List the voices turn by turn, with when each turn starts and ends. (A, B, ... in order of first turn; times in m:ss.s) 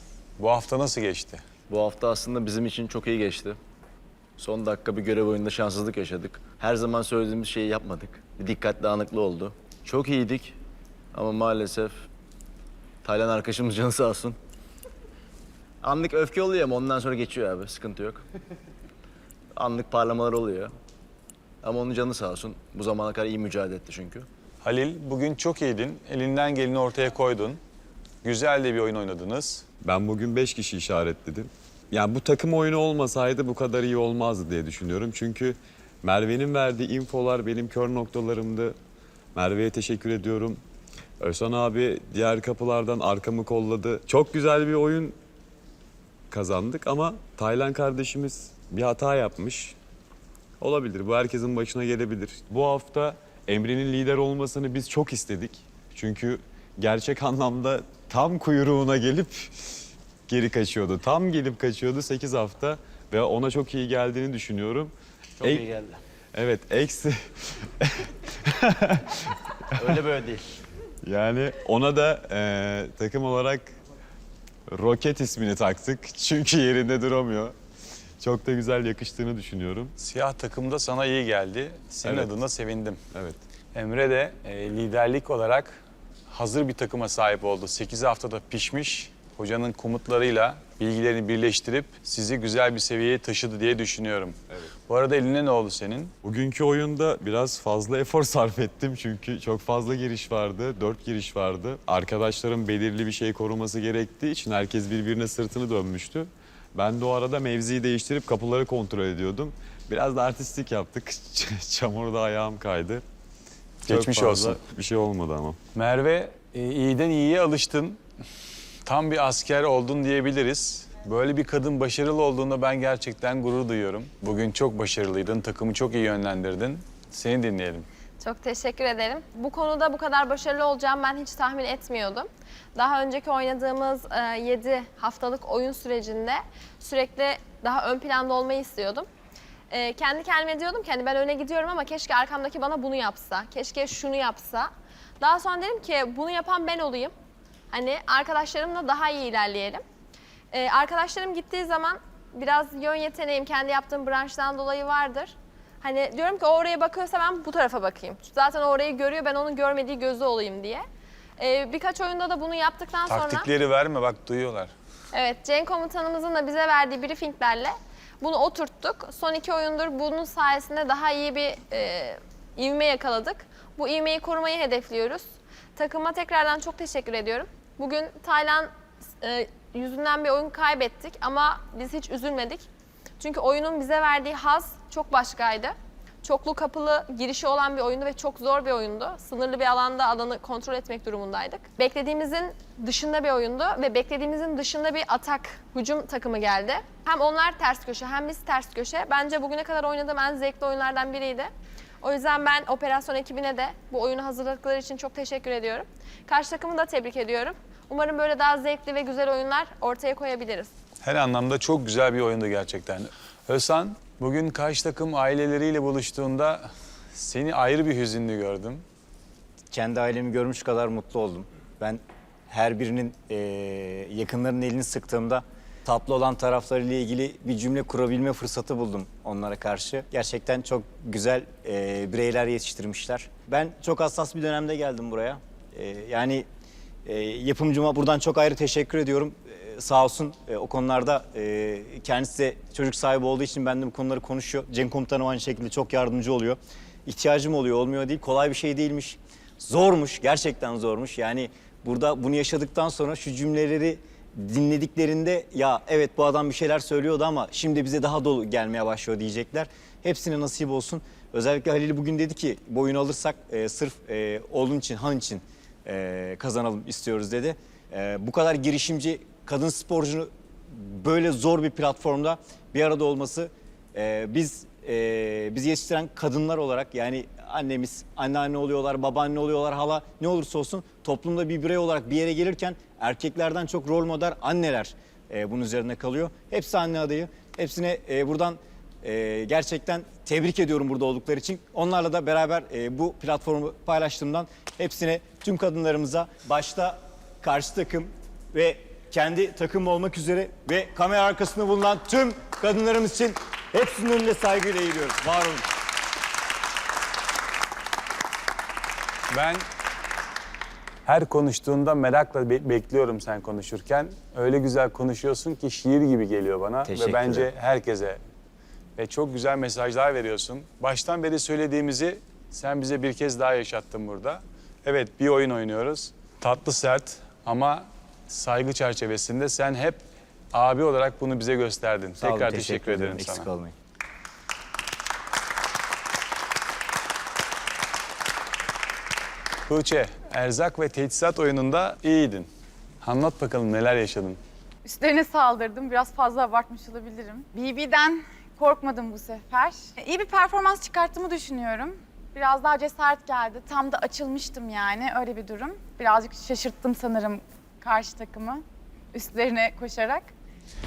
0:00.4-0:01.4 A
0:01.7-0:03.6 B
0:04.4-0:10.6 B
0:11.1-0:11.9 B
0:13.0-0:14.4 B
0:15.8-0:18.2 B
0:19.6-0:20.7 B
0:21.6-0:24.3 B
0:24.6-0:27.6 A
0:28.2-0:29.6 A
0:29.8-0:38.8 C
0:39.3-0:40.6 C
0:41.2-0:45.2 C
0:46.3-0:49.8 C
0:50.6-1:05.7 C
1:05.4-1:06.0 B
1:06.3-1:10.1 C
1:09.8-1:10.4 B
1:11.0-1:13.8 C
1:14.7-1:17.5 C
1:18.2-1:19.9 C
1:20.0-1:23.0 A
1:22.0-1:22.4 C
1:23.1-1:23.4 C
1:23.7-1:34.4 A
1:34.9-1:36.1 A
1:36.2-1:53.0 C
1:53.8-1:55.6 C
1:53.8-1:54.6 A
1:55.7-1:58.0 A
1:58.8-2:07.9 A
2:08.2-2:19.0 D
2:19.7-2:27.1 D
2:27.7-2:29.8 D
2:30.5-2:40.8 D
2:41.4-2:43.5 D
2:43.1-2:44.7 A
2:45.1-2:55.2 D
2:55.8-2:58.7 D
2:59.2-3:02.6 D
3:03.2-3:21.5 D
3:22.0-3:30.7 D
3:31.0-3:38.8 A
3:39.7-3:56.5 E
3:57.0-5:05.6 E
5:09.3-5:09.6 A
5:11.0-5:18.2 A
5:16.8-5:17.5 E
5:19.0-5:30.0 A
5:30.5-5:33.5 A
5:32.2-5:33.7 E
5:39.7-5:42.5 A
5:43.0-5:44.4 A
5:44.8-6:00.3 F